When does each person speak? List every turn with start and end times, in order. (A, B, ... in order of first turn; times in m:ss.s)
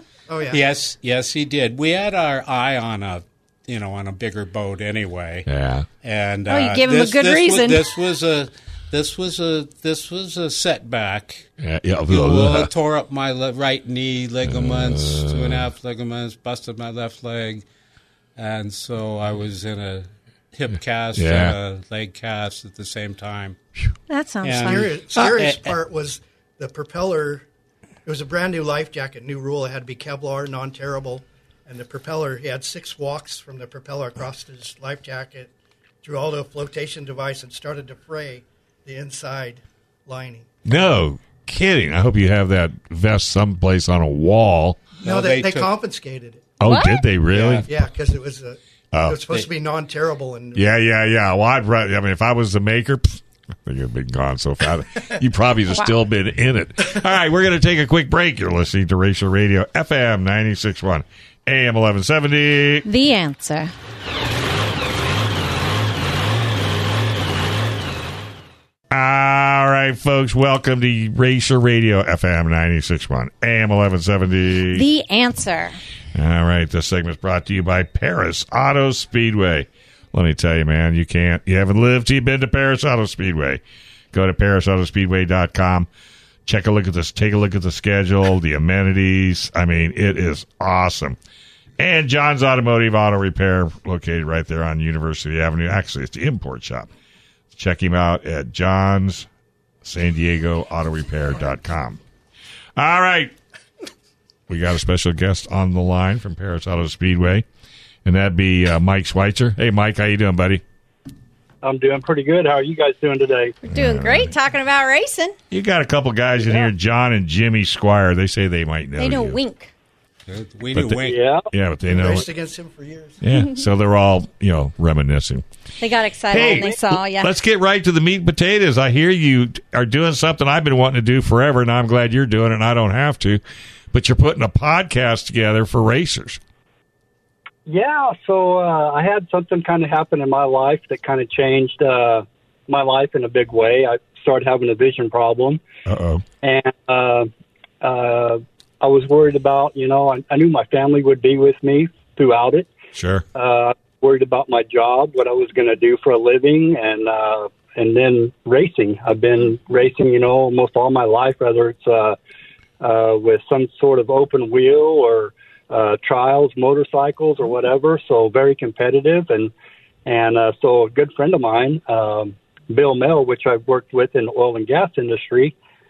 0:00.3-0:00.6 A
0:00.5-0:05.5 B
0:05.5-0:05.9 C
0:06.0-0:11.5 B
0:06.5-0:07.9 D
0:11.6-0:12.7 C
0:12.1-0:17.6 B
0:14.4-0:15.7 C
0:18.4-0:23.6 B
0:21.2-0:21.6 C
0:24.1-0:24.9 D
0:24.4-0:25.8 B
0:24.6-0:27.4 A
0:28.1-0:35.5 A
0:36.0-0:40.5 A
0:40.6-0:44.8 C
0:45.0-0:45.7 B
0:45.0-0:46.6 A
0:46.6-0:47.7 C
0:46.6-0:47.0 D
0:47.3-0:47.7 B
0:47.7-0:50.7 A
0:48.9-0:49.2 C
0:50.6-1:02.9 C
1:02.9-1:03.7 D
1:08.9-1:14.9 C
1:14.7-1:15.8 D
1:16.2-1:23.6 C
1:24.1-1:25.9 C
1:26.5-1:31.2 C
1:31.8-1:36.9 C
1:37.5-1:39.3 C
1:39.8-1:42.0 C
1:42.8-1:43.3 C
1:44.5-1:47.5 C
1:48.0-1:50.6 C
1:51.6-1:53.6 E
1:53.6-1:55.4 D
1:53.7-1:54.4 C
1:55.5-1:59.4 C
1:59.0-1:59.7 D
2:00.3-2:01.2 B
2:00.7-2:02.3 C
2:01.0-2:01.5 E
2:01.9-2:03.2 A
2:03.2-2:05.4 C
2:05.8-2:07.3 D
2:06.3-2:13.4 C
2:06.4-2:06.7 E
2:13.9-2:16.4 C
2:17.7-2:25.6 E
2:25.9-2:26.2 C
2:26.4-2:27.3 E
2:27.8-2:32.7 E
2:33.0-2:33.2 C
2:33.4-2:42.2 E
2:42.8-2:49.5 E
2:50.0-2:55.6 E